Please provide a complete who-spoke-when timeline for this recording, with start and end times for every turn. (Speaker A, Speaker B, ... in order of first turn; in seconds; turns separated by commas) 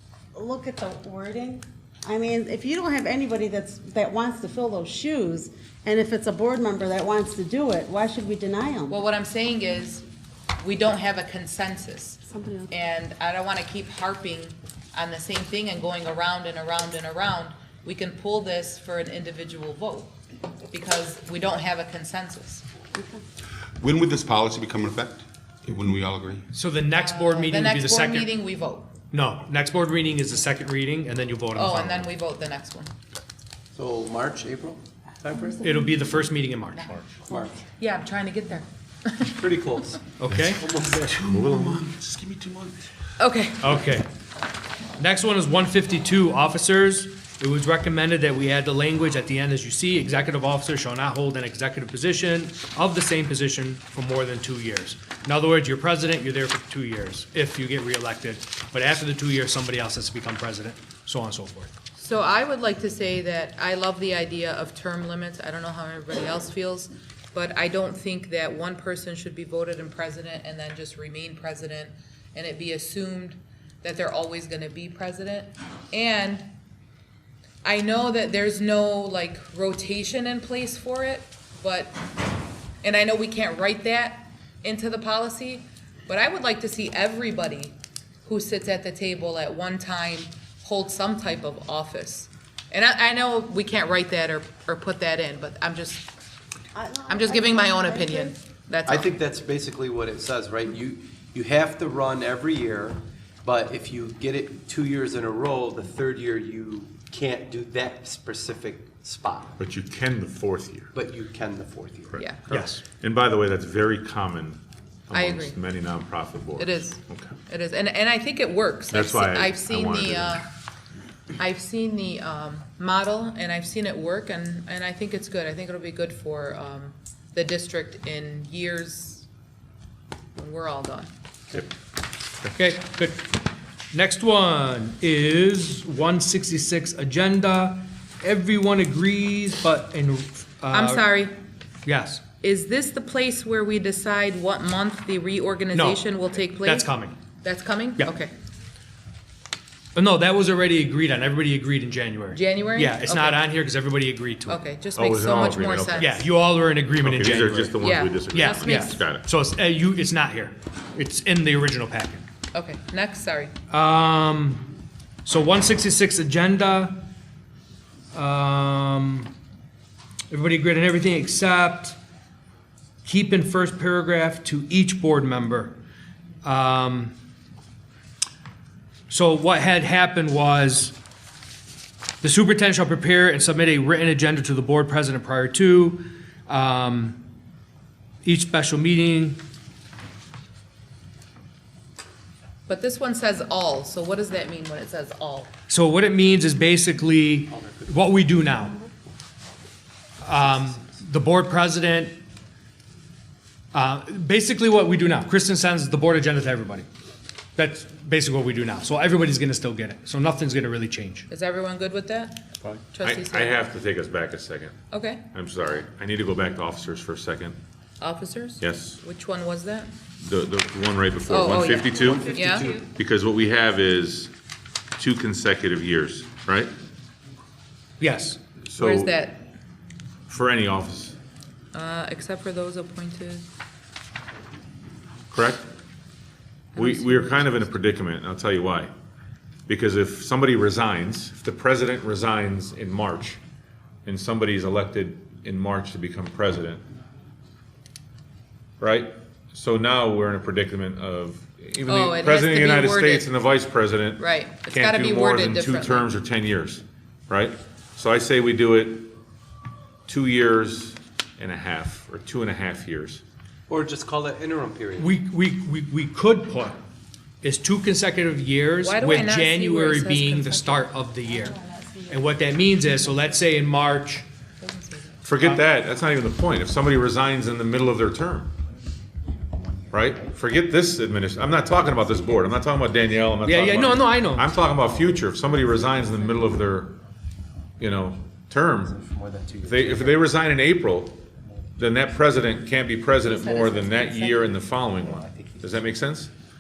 Speaker A: 0.3-9.0, Speaker B: 8.9-10.0, Speaker B: 10.6-20.1, Speaker A: 12.2-12.7, Speaker B: 20.7-22.6, Speaker A: 22.9-23.2, Speaker C: 23.8-26.4, Speaker D: 26.5-28.3, Speaker B: 26.9-28.9, Speaker D: 29.1-32.1, Speaker B: 31.5-32.9, Speaker E: 33.7-35.7, Speaker A: 35.3-35.9, Speaker D: 35.6-36.9, Speaker A: 37.3-37.6, Speaker B: 37.7-39.5, Speaker E: 39.4-41.5, Speaker D: 40.2-40.6, Speaker F: 41.2-42.7, Speaker B: 43.2-43.8, Speaker D: 43.6-44.1, Speaker D: 45.0-61.7, Speaker B: 62.0-76.5, Speaker B: 77.6-82.0, Speaker B: 82.8-96.1, Speaker A: 96.7-98.3, Speaker B: 97.1-99.1, Speaker E: 98.9-109.5, Speaker F: 109.6-110.9, Speaker E: 110.9-112.2, Speaker F: 112.1-117.3, Speaker D: 112.5-112.8, Speaker B: 115.1-115.6, Speaker B: 116.6-120.5, Speaker F: 118.9-120.4, Speaker B: 121.3-129.3, Speaker B: 130.3-131.1, Speaker D: 132.5-133.4, Speaker D: 133.9-141.1, Speaker B: 140.7-141.3, Speaker D: 141.8-142.2, Speaker B: 142.4-146.9, Speaker D: 145.7-147.2, Speaker B: 147.4-148.3, Speaker D: 149.9-154.6, Speaker B: 152.3-153.4, Speaker B: 154.5-156.2, Speaker F: 154.9-156.2, Speaker D: 156.0-162.2, Speaker F: 157.0-159.2, Speaker B: 157.8-159.0, Speaker B: 162.5-163.5, Speaker D: 163.7-164.7, Speaker D: 165.2-167.0, Speaker D: 168.1-169.3, Speaker D: 170.3-172.0, Speaker D: 173.0-175.8, Speaker D: 176.4-177.1, Speaker D: 179.1-180.9, Speaker D: 182.2-187.2, Speaker D: 188.2-189.4, Speaker B: 192.7-195.5, Speaker D: 195.7-198.8, Speaker D: 200.2-202.2, Speaker D: 203.7-206.9, Speaker D: 207.6-211.2, Speaker B: 211.3-212.4, Speaker F: 212.6-214.8, Speaker B: 212.9-213.7, Speaker B: 214.9-215.3, Speaker F: 215.3-217.6, Speaker B: 218.0-219.9, Speaker F: 218.6-219.0, Speaker F: 220.2-224.3, Speaker B: 221.3-222.8, Speaker E: 222.3-222.8, Speaker F: 225.0-226.7, Speaker D: 228.0-228.4, Speaker F: 228.7-229.1, Speaker B: 228.8-229.4, Speaker F: 230.3-231.2, Speaker B: 231.7-233.5, Speaker F: 235.3-235.7, Speaker F: 236.7-238.9, Speaker B: 236.8-237.8, Speaker F: 239.7-243.4, Speaker F: 244.1-246.8, Speaker F: 248.8-259.1, Speaker B: 251.9-253.3, Speaker B: 254.2-256.1, Speaker F: 260.1-263.2, Speaker E: 263.7-265.1, Speaker D: 265.0-266.8, Speaker D: 267.4-271.6, Speaker B: 268.8-270.9, Speaker A: 271.3-273.4, Speaker D: 272.1-274.2, Speaker B: 274.6-275.2, Speaker F: 275.2-278.5, Speaker D: 275.4-275.6, Speaker F: 279.9-286.9, Speaker D: 283.4-284.5, Speaker F: 287.8-289.0, Speaker E: 289.1-289.6, Speaker F: 289.6-291.2, Speaker F: 291.8-296.3, Speaker B: 293.2-294.6